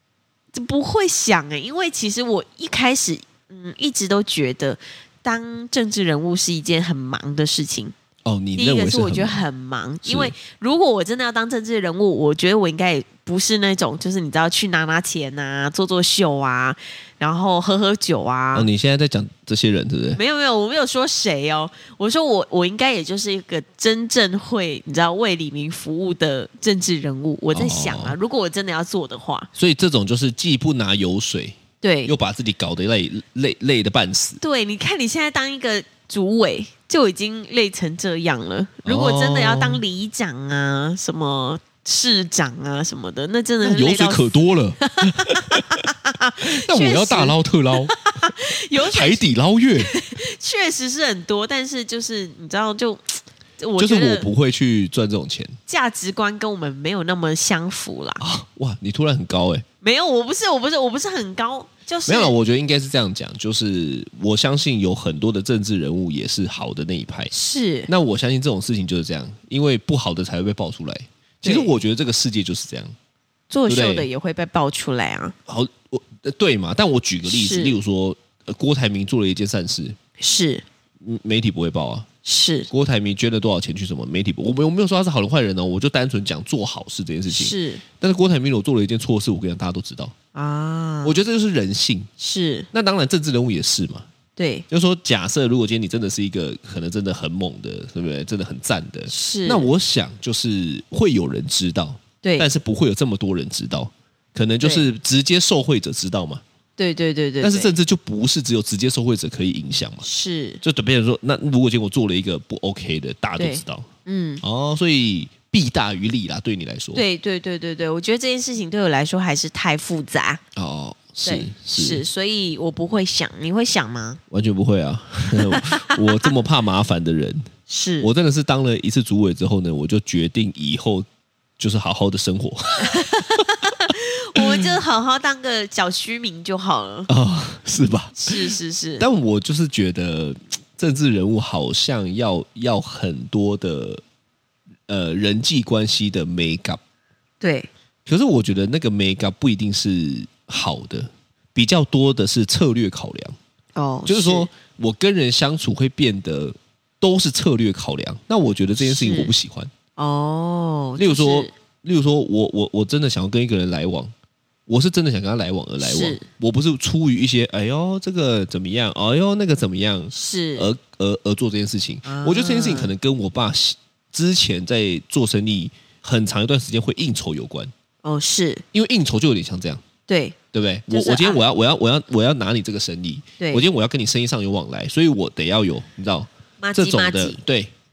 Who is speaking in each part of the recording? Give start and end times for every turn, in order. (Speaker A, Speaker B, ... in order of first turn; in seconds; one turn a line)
Speaker A: 0.5-7.9
Speaker B: 8.2-9.4
Speaker A: 8.6-18.7
Speaker B: 10.0-10.3
Speaker B: 18.5-20.2
Speaker A: 20.1-29.5
Speaker B: 27.5-28.1
Speaker B: 29.5-34.4
Speaker A: 31.8-32.1
Speaker A: 34.4-47.4
Speaker B: 38.9-39.8
Speaker B: 43.6-45.8
Speaker B: 46.4-47.9
Speaker A: 47.9-49.2
Speaker B: 48.7-49.9
Speaker A: 49.8-54.3
Speaker B: 53.8-55.6
Speaker A: 55.7-58.2
Speaker B: 58.2-59.6
Speaker A: 59.8-62.3
Speaker B: 62.1-67.3
Speaker A: 67.3-67.9
Speaker B: 67.9-72.9
Speaker A: 71.4-71.7
Speaker A: 73.5-75.3
Speaker B: 73.7-74.1
Speaker B: 75.5-80.0
Speaker A: 77.3-77.8
Speaker A: 80.2-80.6
Speaker B: 81.0-82.1
Speaker A: 82.2-82.7
Speaker B: 82.7-90.1
Speaker A: 87.3-87.8
Speaker A: 90.3-91.2
Speaker B: 91.0-92.1
Speaker A: 92.2-92.7
Speaker B: 92.7-94.0
Speaker A: 94.3-94.6
Speaker B: 94.7-106.4
Speaker A: 99.1-99.7
Speaker A: 102.2-102.5
Speaker A: 104.6-104.9
Speaker A: 106.8-107.7
Speaker B: 107.4-110.0
Speaker A: 110.0-110.6
Speaker B: 110.6-113.9
Speaker A: 113.4-114.4
Speaker B: 114.4-117.0
Speaker A: 116.9-120.4
Speaker B: 120.5-122.0
Speaker A: 121.2-124.2
Speaker B: 124.3-127.5
Speaker A: 125.3-126.2
Speaker A: 127.7-128.1
Speaker B: 128.0-131.1
Speaker B: 131.6-134.8
Speaker A: 132.8-137.1
Speaker B: 137.1-144.0
Speaker A: 138.1-139.1
Speaker B: 144.9-146.8
Speaker A: 147.4-147.7
Speaker B: 148.1-153.3
Speaker A: 153.8-154.5
Speaker B: 154.1-159.7
Speaker A: 158.8-159.3
Speaker A: 160.0-161.5
Speaker B: 161.0-164.1
Speaker B: 164.7-177.7
Speaker A: 165.8-166.2
Speaker A: 170.1-170.7
Speaker A: 172.0-172.9
Speaker A: 178.0-178.6
Speaker B: 178.7-179.8
Speaker A: 180.1-180.3
Speaker B: 180.5-187.7
Speaker A: 180.9-181.4
Speaker A: 186.6-187.4